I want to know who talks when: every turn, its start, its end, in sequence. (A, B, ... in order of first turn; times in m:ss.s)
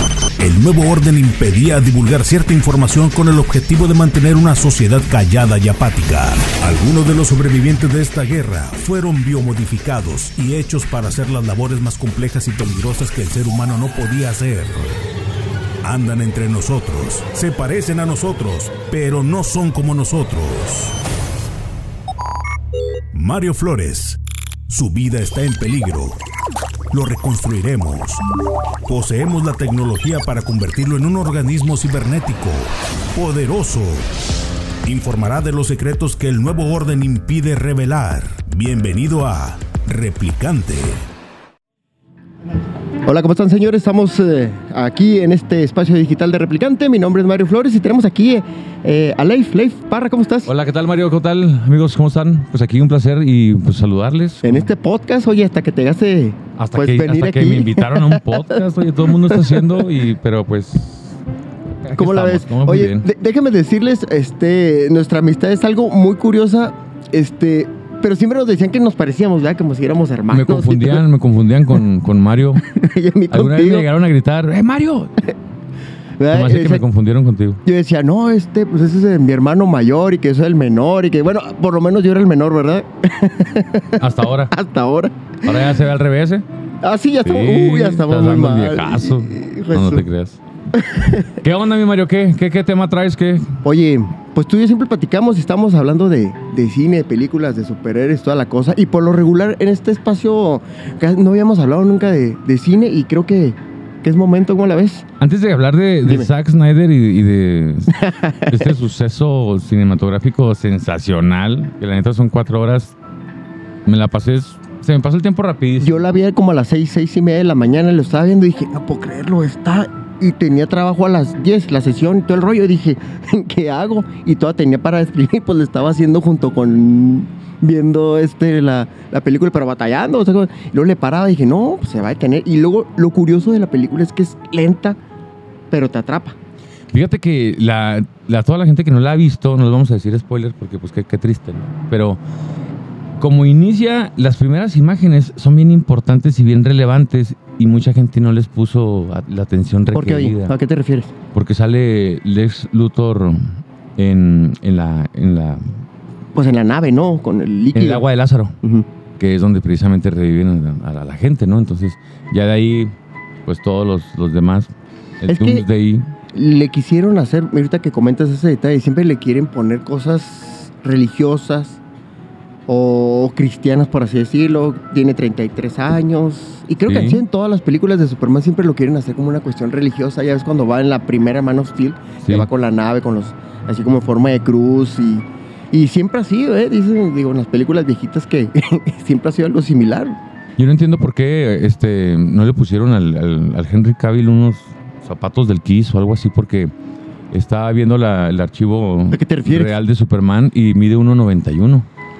0:00.4-0:14.9 A
0:15.8-0:21.0 A
0:23.1-0:26.2 A
0:26.9-0:28.2 A
0:28.9-0:34.1 A
0:34.8-0:41.0 A
0:43.0-0:50.5 B
0:50.5-0:54.7 C
0:54.4-0:58.6 B
0:56.6-1:01.2 C
0:59.2-0:59.7 B
1:01.9-1:03.1 C
1:02.0-1:11.0 B
1:10.3-1:12.6 C
1:12.7-1:13.9 B
1:13.3-1:15.2 C
1:16.2-1:16.8 B
1:16.3-1:17.6 C
1:17.6-1:25.6 B
1:24.0-1:24.5 C
1:25.4-1:26.4 C
1:26.8-1:30.1 B
1:27.2-1:30.4 C
1:30.7-1:31.3 B
1:31.4-1:33.5 C
1:33.6-1:45.0 B
1:45.2-1:48.0 C
1:46.0-1:46.3 B
1:47.9-1:48.7 B
1:48.5-1:53.0 C
1:53.9-1:56.0 C
1:55.8-2:15.0 B
2:15.7-2:16.4 B
2:16.9-2:22.2 C
2:23.2-2:30.5 C
2:29.9-2:31.1 B
2:31.3-2:35.7 C
2:36.4-2:38.0 B
2:37.7-2:38.6 C
2:39.2-2:42.9 C
2:43.5-2:44.7 C
2:45.2-2:46.1 C
2:45.3-2:45.7 B
2:46.3-2:51.8 B
2:52.7-3:10.2 B
2:56.9-2:57.2 C
3:02.2-3:02.5 C
3:10.6-3:16.7 C
3:17.3-3:21.9 C
3:19.1-3:19.8 B